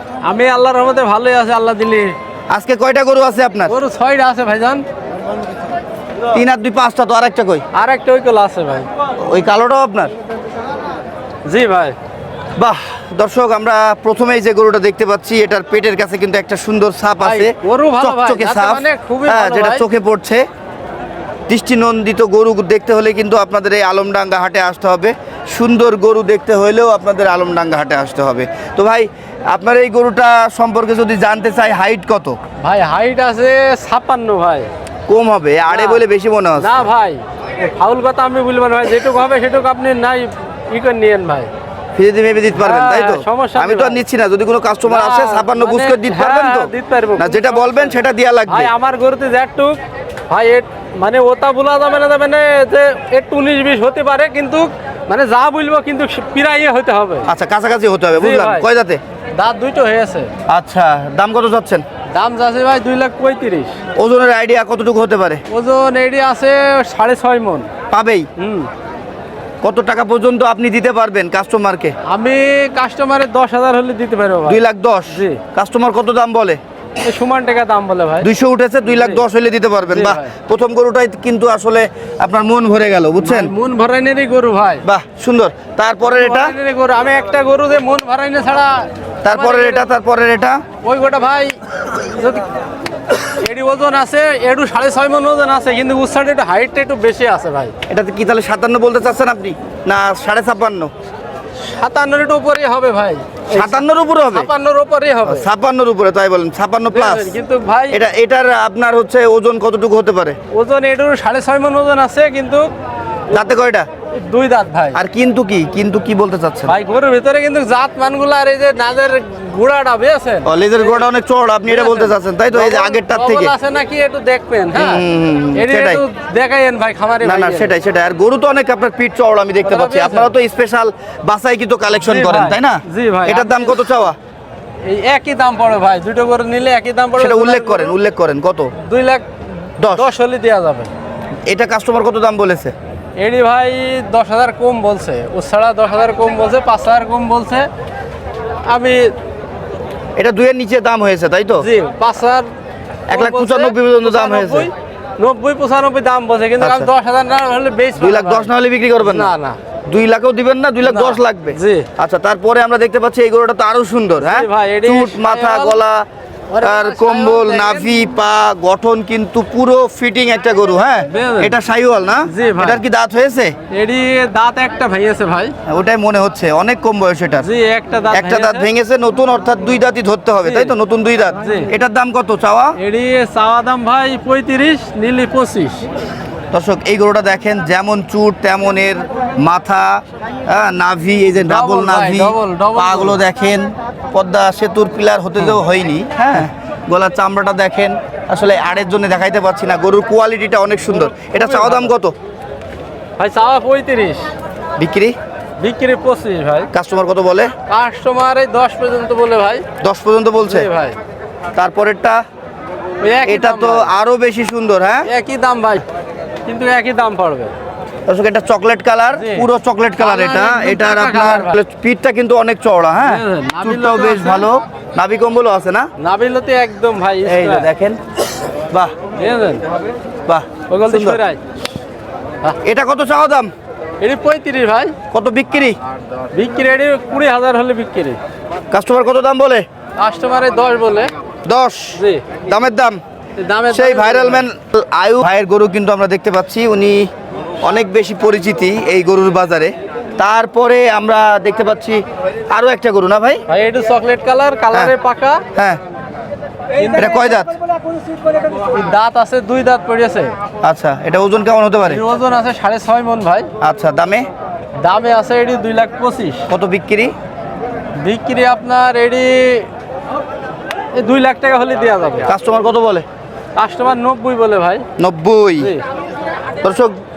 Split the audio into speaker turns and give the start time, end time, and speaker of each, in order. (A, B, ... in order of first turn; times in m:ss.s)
0:00.3-0:02.2 A
0:02.5-0:03.7 B
0:03.7-0:04.8 A
0:06.3-0:07.6 B
0:07.7-0:08.9 A
0:09.2-0:10.1 B
0:11.5-0:12.0 A
0:12.6-0:20.4 B
0:17.2-0:19.9 A
0:21.5-0:32.4 B
0:32.6-0:34.7 A
0:35.1-0:36.8 B
0:35.7-0:36.0 A
0:36.6-0:41.5 A
0:42.0-0:48.7 B
0:42.6-0:44.0 A
0:44.8-0:49.8 A
0:50.3-0:57.3 A
0:57.3-0:59.0 B
0:58.2-0:58.7 A
0:59.4-1:00.3 A
1:00.5-1:01.8 B
1:02.1-1:03.8 A
1:04.0-1:05.4 B
1:05.5-1:07.7 A
1:07.9-1:08.3 B
1:08.4-1:08.7 A
1:09.6-1:11.9 B
1:12.1-1:15.4 A
1:14.5-1:16.6 B
1:17.0-1:18.3 A
1:18.2-1:23.5 B
1:18.9-1:19.2 A
1:19.9-1:20.3 A
1:23.2-1:24.8 A
1:24.8-1:26.6 B
1:26.0-1:29.9 A
1:29.2-1:30.6 B
1:30.8-1:32.5 A
1:33.1-1:37.7 A
1:37.9-1:40.9 B
1:41.6-1:45.5 A
1:43.5-1:44.5 B
1:45.2-1:47.4 B
1:46.9-1:48.0 A
1:47.9-1:50.4 B
1:50.5-1:52.7 A
1:53.3-1:53.9 B
1:54.1-1:55.0 A
1:55.0-1:56.7 B
1:56.7-2:01.0 A
2:00.4-2:03.5 B
2:01.7-2:07.7 A
2:04.7-2:06.0 B
2:07.2-2:14.2 B
2:09.6-2:10.3 A
2:12.0-2:13.8 A
2:14.8-2:17.9 A
2:17.2-2:18.7 B
2:18.8-2:19.3 A
2:19.8-2:20.1 B
2:19.9-2:20.9 A
2:21.5-2:22.7 B
2:23.2-2:27.7 A
2:28.7-2:29.1 A
2:30.2-2:31.7 B
2:31.6-2:32.5 A
2:33.1-2:34.7 B
2:33.1-2:38.5 A
2:36.6-2:36.9 B
2:38.0-2:39.3 B
2:39.0-2:39.6 A
2:39.9-2:46.0 B
2:40.8-2:41.9 A
2:44.2-2:45.8 A
2:46.5-2:47.9 A
2:46.6-2:53.6 B
2:51.1-2:51.5 A
2:52.3-2:52.8 A
2:53.7-2:55.6 A
2:55.7-2:57.5 B
2:57.4-2:58.7 A
2:58.1-3:02.8 B
3:00.4-3:00.7 A
3:01.4-3:01.7 A
3:02.8-3:05.9 A
3:06.5-3:22.2 B
3:11.4-3:13.2 A
3:21.2-3:21.9 A
3:23.2-3:24.3 A
3:24.8-3:25.2 B
3:25.6-3:26.7 A
3:26.7-3:27.5 B
3:27.7-3:29.6 A
3:29.8-3:30.7 B
3:30.4-3:31.0 A
3:31.6-3:32.2 B
3:33.0-3:33.9 A
3:33.2-3:35.1 B
3:35.0-3:35.8 A
3:36.5-3:37.5 A
3:38.1-3:45.9 B
3:39.2-3:39.5 A
3:40.0-3:41.6 A
3:43.0-3:44.5 A
3:46.0-3:47.7 A
3:47.2-3:48.0 B
3:49.2-3:49.6 A
3:50.3-3:51.2 B
3:50.7-3:51.4 A
3:52.6-3:53.5 B
3:54.0-3:54.9 A
3:55.1-3:55.8 B
3:56.3-3:58.2 A
3:58.7-3:59.7 B
4:00.0-4:01.1 A
4:01.4-4:03.0 B
4:02.0-4:02.2 A
4:03.4-4:04.5 A
4:03.7-4:07.1 B
4:07.6-4:13.4 B
4:13.5-4:15.4 A
4:15.6-4:15.8 B
4:16.8-4:17.4 A
4:16.9-4:17.5 B
4:18.4-4:20.3 A
4:20.6-4:22.0 B
4:21.9-4:23.5 A
4:23.6-4:24.3 B
4:24.8-4:26.5 A
4:26.5-4:27.1 B
4:28.0-4:29.7 A
4:30.9-4:32.3 A
4:32.3-4:33.0 B
4:33.6-4:34.8 A
4:35.0-4:35.8 B
4:35.6-4:35.8 A
4:36.6-4:37.0 B